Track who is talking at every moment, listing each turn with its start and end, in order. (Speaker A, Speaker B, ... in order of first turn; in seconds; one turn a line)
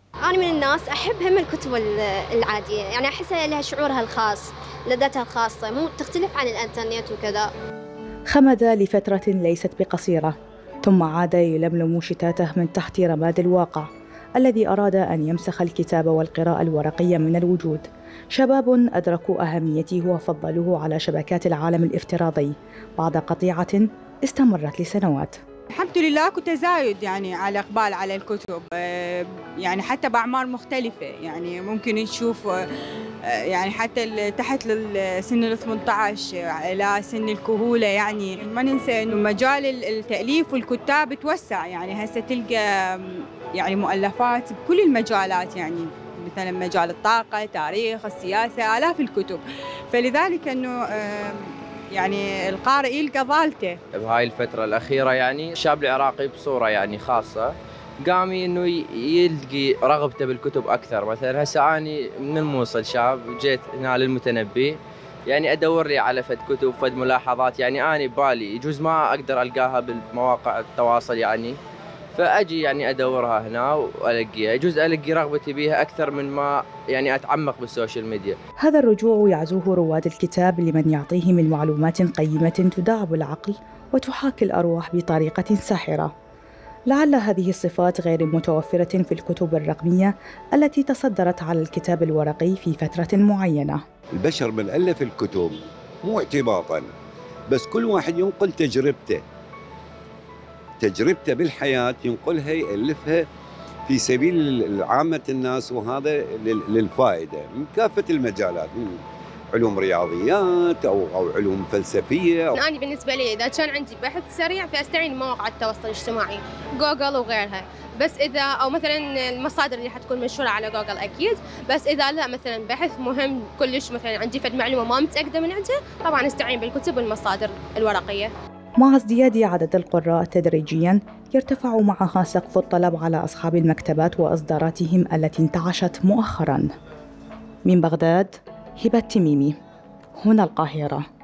Speaker A: 0.2-7.5
Speaker B: 8.3-25.4
Speaker C: 25.7-32.6
Speaker C: 33.2-53.8
Speaker D: 54.0-57.5
Speaker D: 58.0-71.5
Speaker D: 72.1-78.4
Speaker B: 78.6-86.1
Speaker B: 86.9-93.8
Speaker E: 94.2-96.9
Speaker E: 97.5-99.2
Speaker E: 100.8-103.2
Speaker E: 103.9-109.0
Speaker E: 109.5-112.6
Speaker F: 112.5-128.3
Speaker B: 128.8-136.7
Speaker B: 137.7-139.6
Speaker B: 140.2-141.0